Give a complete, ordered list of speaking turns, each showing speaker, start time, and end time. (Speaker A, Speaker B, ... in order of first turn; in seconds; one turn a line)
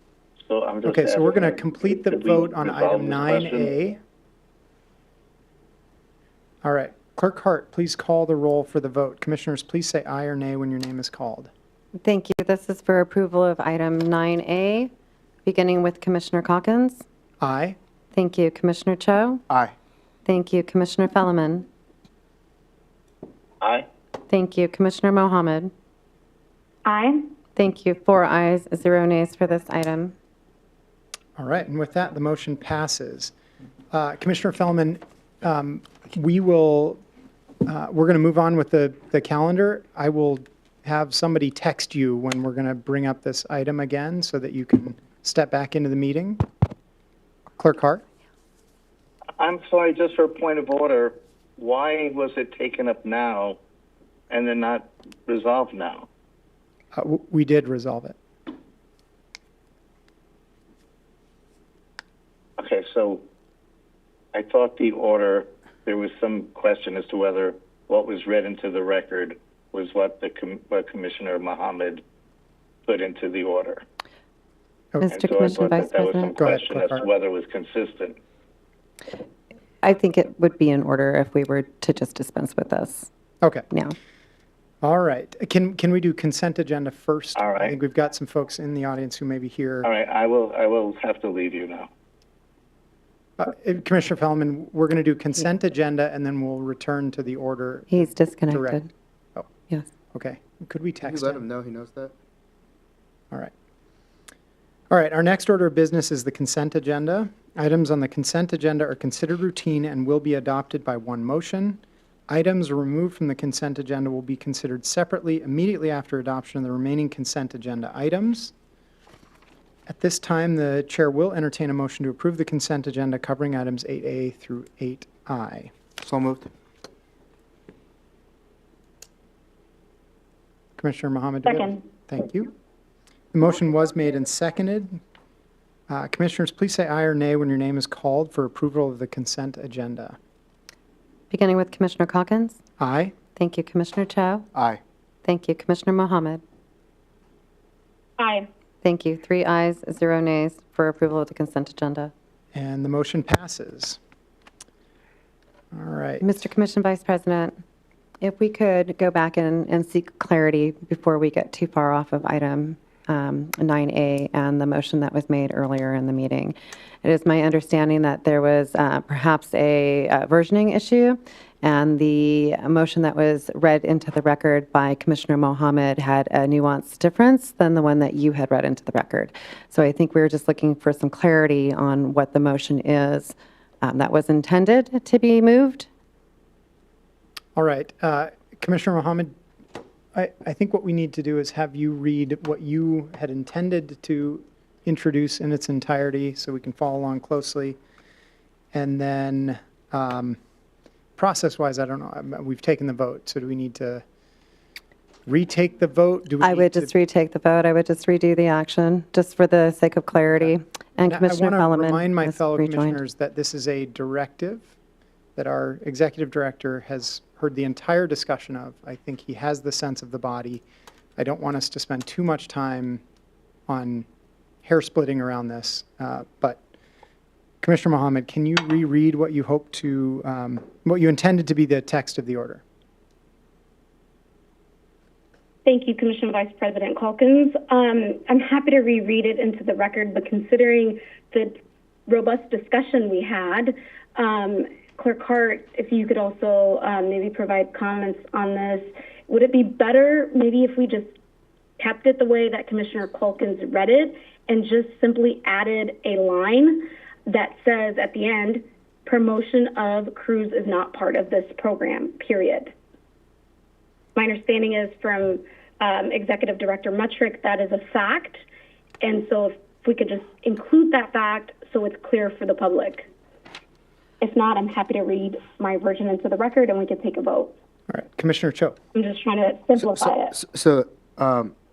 Speaker A: 0.5-3.7
Speaker B: 0.8-4.0
Speaker B: 6.6-11.5
Speaker C: 12.0-14.9
Speaker C: 15.4-17.0
Speaker B: 17.4-17.8
Speaker C: 18.1-19.4
Speaker C: 20.2-21.7
Speaker A: 23.6-23.9
Speaker C: 24.3-25.7
Speaker D: 26.9-27.3
Speaker C: 27.6-30.1
Speaker B: 31.4-33.3
Speaker B: 33.9-37.0
Speaker B: 37.6-46.4
Speaker B: 47.6-48.0
Speaker A: 49.4-53.6
Speaker A: 54.3-56.1
Speaker B: 57.0-58.2
Speaker A: 62.6-63.2
Speaker A: 64.3-72.0
Speaker A: 72.9-73.8
Speaker C: 75.0-76.4
Speaker A: 75.1-78.2
Speaker B: 76.4-77.0
Speaker C: 79.8-83.1
Speaker B: 84.8-89.9
Speaker A: 87.4-87.7
Speaker A: 89.8-91.9
Speaker B: 93.4-98.8
Speaker C: 97.9-98.9
Speaker B: 100.1-101.4
Speaker E: 101.0-102.1
Speaker B: 104.9-118.5
Speaker B: 119.9-125.7
Speaker E: 126.0-126.5
Speaker B: 130.8-132.5
Speaker D: 131.5-131.8
Speaker B: 133.3-135.0
Speaker B: 135.9-140.2
Speaker C: 141.3-142.6
Speaker B: 142.8-143.2
Speaker C: 143.3-144.5
Speaker E: 144.6-144.8
Speaker C: 145.2-146.4
Speaker D: 148.2-148.5
Speaker C: 148.8-152.1
Speaker B: 152.5-154.0
Speaker B: 155.7-156.3
Speaker C: 156.2-157.6
Speaker C: 158.2-185.9
Speaker B: 187.6-189.3
Speaker B: 190.1-197.8
Speaker B: 198.7-200.4
Speaker B: 201.2-204.0
Speaker B: 205.3-206.9
Speaker C: 206.4-213.0
Speaker B: 211.1-214.7
Speaker B: 215.4-220.6
Speaker B: 221.2-223.0
Speaker B: 223.7-224.1
Speaker B: 224.6-226.6
Speaker B: 227.6-232.6
Speaker D: 235.7-251.1
Speaker D: 251.8-262.7
Speaker D: 264.1-268.4
Speaker D: 269.0-273.1
Speaker D: 274.2-277.5
Speaker B: 277.9-278.8
Speaker D: 278.9-280.3
Speaker E: 279.8-281.5